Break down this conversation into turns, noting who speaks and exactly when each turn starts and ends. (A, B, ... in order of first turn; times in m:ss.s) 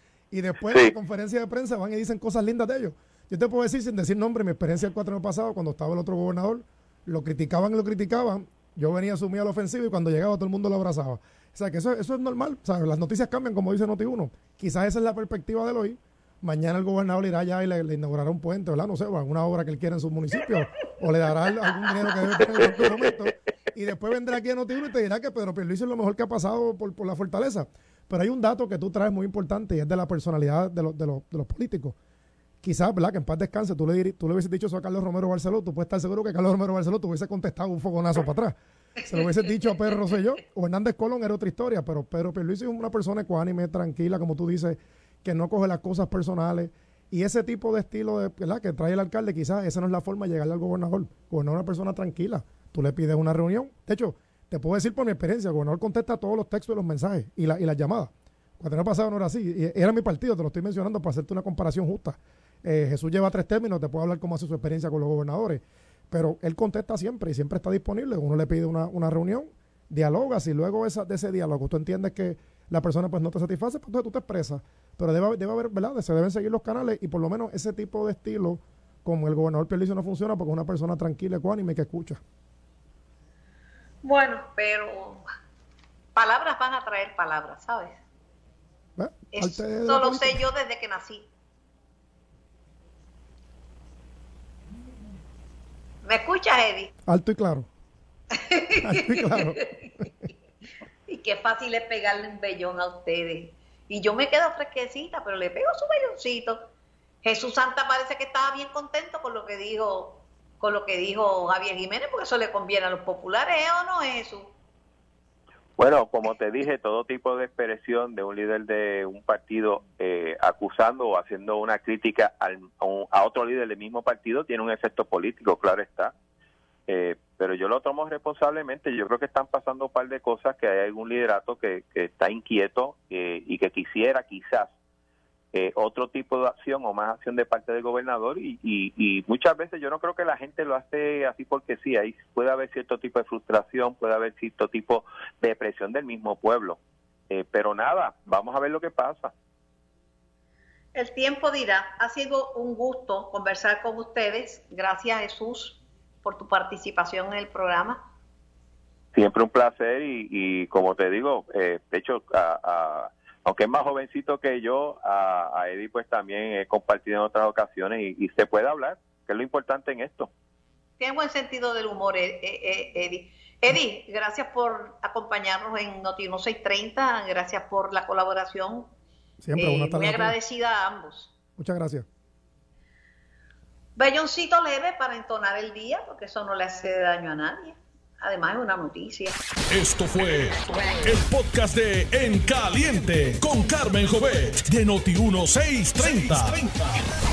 0:00.3-0:32.0 A
0:32.6-1:22.2 A
1:24.0-1:25.2 B
1:26.2-1:28.0 B
1:29.0-1:30.4 A
1:29.3-1:31.3 B
1:36.0-1:36.9 B
1:37.1-1:37.7 A
1:38.3-1:39.9 B
1:38.8-1:39.7 A
1:41.1-1:46.7 B
1:47.2-1:54.5 B
1:55.8-2:06.2 C
2:06.9-2:14.7 C
2:15.5-2:26.8 C
2:27.3-2:29.3 C
2:31.0-2:38.0 B
2:39.1-2:50.3 C
2:51.0-2:58.9 B
2:59.4-3:00.4 A
2:59.6-3:01.4 B
3:01.6-3:02.1 A
3:04.0-3:09.4 B
3:09.7-3:17.0 D